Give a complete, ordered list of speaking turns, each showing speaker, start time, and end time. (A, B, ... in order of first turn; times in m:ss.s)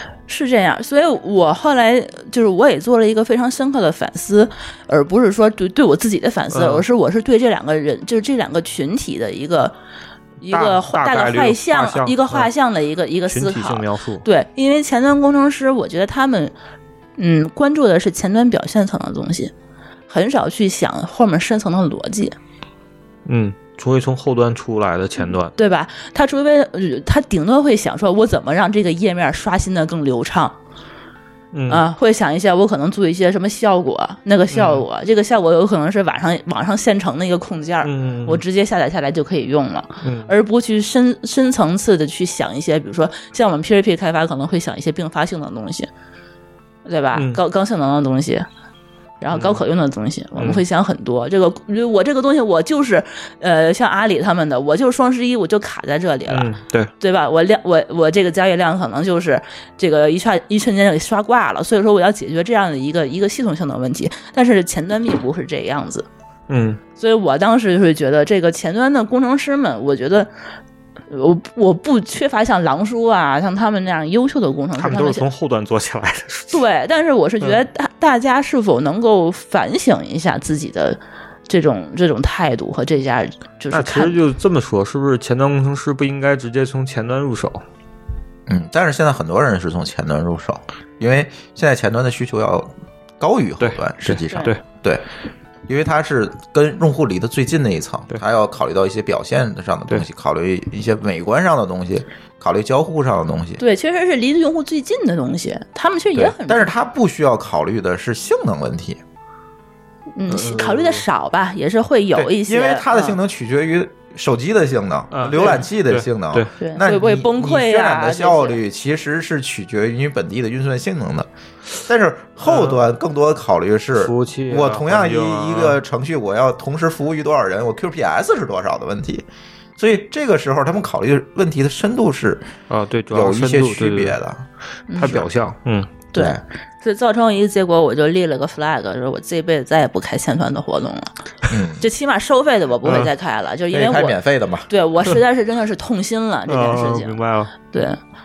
0:00.3-0:09.7 A
0:06.5-0:06.8 B
0:10.4-0:16.5 A
0:10.4-0:12.5 B
0:13.3-0:14.2 B
0:17.2-0:19.5 A
0:20.1-0:22.3 A
0:23.3-0:25.5 B
0:25.2-0:30.6 A
0:31.5-0:31.8 B
0:31.7-0:45.9 A
0:34.5-0:34.8 B
0:37.8-0:38.4 B
0:40.0-0:40.3 B
0:46.8-0:48.5 A
0:47.1-0:47.4 B
0:49.2-1:06.1 A
0:49.3-0:49.6 B
0:50.4-0:50.6 B
0:56.3-0:56.9 B
1:06.5-1:06.8 B
1:07.0-1:10.3 A
1:11.1-1:15.2 A
1:14.8-1:16.6 B
1:16.5-1:21.0 A
1:21.5-1:24.2 A
1:23.7-1:27.6 B
1:28.5-1:35.0 C
1:33.6-1:34.6 B
1:35.7-1:43.6 C
1:43.6-1:46.7 A
1:46.3-1:49.0 C
1:50.2-1:53.2 A
1:50.3-1:51.0 B
1:52.2-2:09.3 C
1:55.1-1:56.5 B
1:56.6-1:58.6 A
2:02.4-2:02.8 B
2:04.0-2:05.8 B
2:09.8-2:12.5 C
2:12.7-2:14.2 B
2:13.1-2:14.4 C
2:14.9-2:15.2 A
2:14.9-2:15.9 B
2:15.0-2:15.3 C
2:16.1-2:21.1 A
2:16.1-2:16.4 C
2:21.5-2:21.8 C
2:21.8-2:24.2 A
2:22.8-2:23.1 B
2:23.7-2:24.7 C
2:24.7-2:27.2 A
2:26.5-2:27.5 B
2:27.7-2:28.0 A